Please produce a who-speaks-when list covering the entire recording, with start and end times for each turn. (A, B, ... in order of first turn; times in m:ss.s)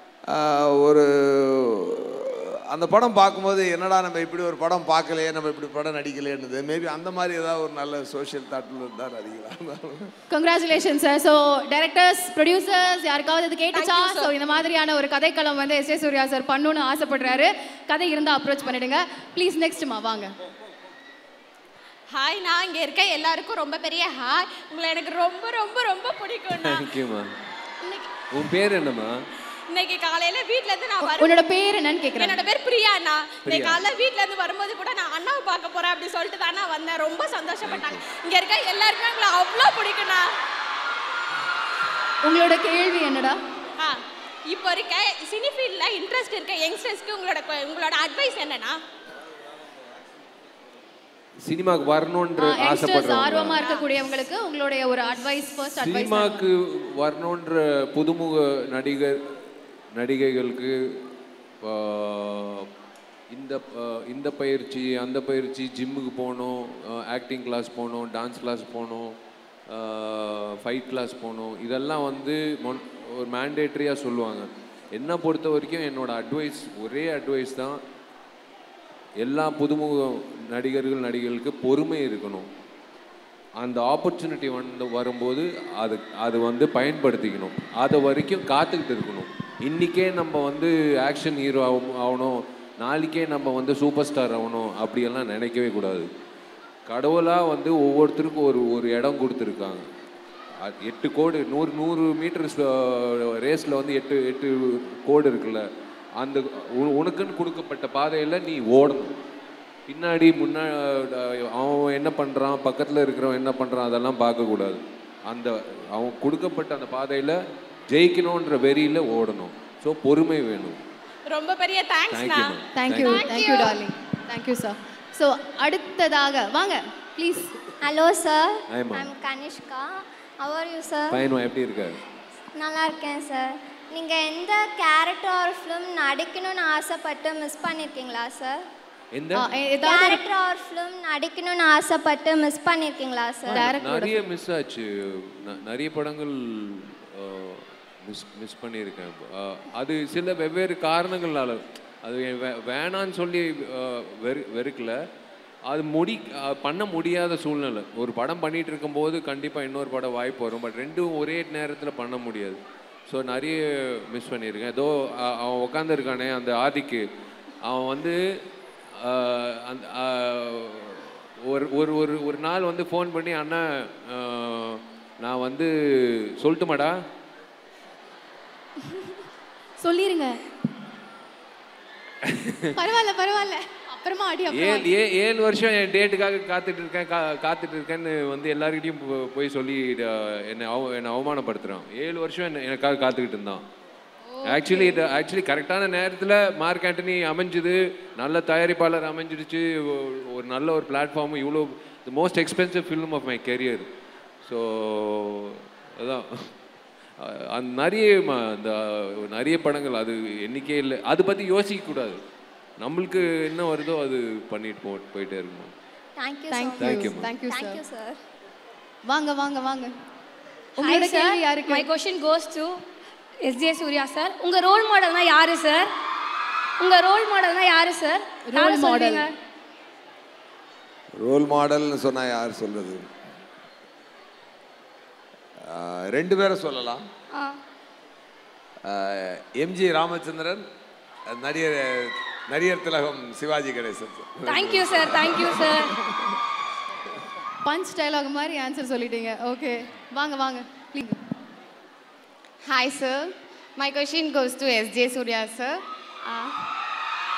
0:00.3-0:10.1 A
0:10.3-0:20.3 B
0:13.7-0:14.3 C
0:22.1-0:26.9 C
0:26.5-0:27.3 D
0:27.8-0:28.1 C
0:28.3-0:29.1 D
0:29.7-0:31.4 C
0:31.0-0:32.4 B
0:32.1-0:40.3 C
0:33.4-0:33.8 D
0:37.6-0:38.0 D
0:42.2-0:43.4 B
0:43.8-0:48.8 C
0:51.4-0:53.6 D
0:52.4-0:56.4 B
0:53.6-0:53.8 C
0:55.7-0:59.2 D
0:59.9-1:01.0 D
1:01.6-1:02.7 D
1:03.3-1:09.1 D
1:09.7-1:17.8 D
1:19.2-1:22.5 D
1:23.6-1:36.1 D
1:36.9-1:39.8 D
1:40.6-1:45.6 D
1:46.2-1:49.1 D
1:49.9-1:57.4 D
1:57.9-2:00.8 D
2:01.3-2:03.8 C
2:02.1-2:03.4 D
2:02.7-2:07.6 B
2:07.8-2:09.8 E
2:08.7-2:09.1 D
2:10.4-2:11.2 E
2:11.1-2:12.0 D
2:12.5-2:18.6 E
2:19.1-2:19.6 D
2:19.4-2:20.2 B
2:19.8-2:23.6 E
2:23.4-2:35.0 D
2:23.5-2:24.2 B
2:35.7-2:47.0 D
2:47.6-2:48.2 D
2:49.0-2:56.9 D
2:59.8-3:00.4 B
3:02.2-3:02.7 D
3:02.8-3:04.9 B
3:04.5-3:13.6 D
3:14.2-3:15.0 B
3:14.5-3:23.9 D
3:24.4-3:26.5 D
3:27.2-3:32.2 D
3:32.8-3:35.7 D
3:36.2-3:36.9 E
3:36.5-3:37.8 B
3:36.8-3:37.3 D
3:37.5-3:38.2 E
3:39.0-3:39.9 B
3:40.8-3:41.9 B
3:40.8-3:42.8 F
3:43.4-3:45.9 F
3:46.8-3:49.3 F
3:48.4-3:49.3 B
3:51.2-3:53.0 A
3:55.6-3:57.0 A
3:58.8-4:00.6 A
4:01.3-4:06.3 A
4:04.5-4:05.9 F
4:07.6-4:11.2 B
4:12.6-4:16.5 G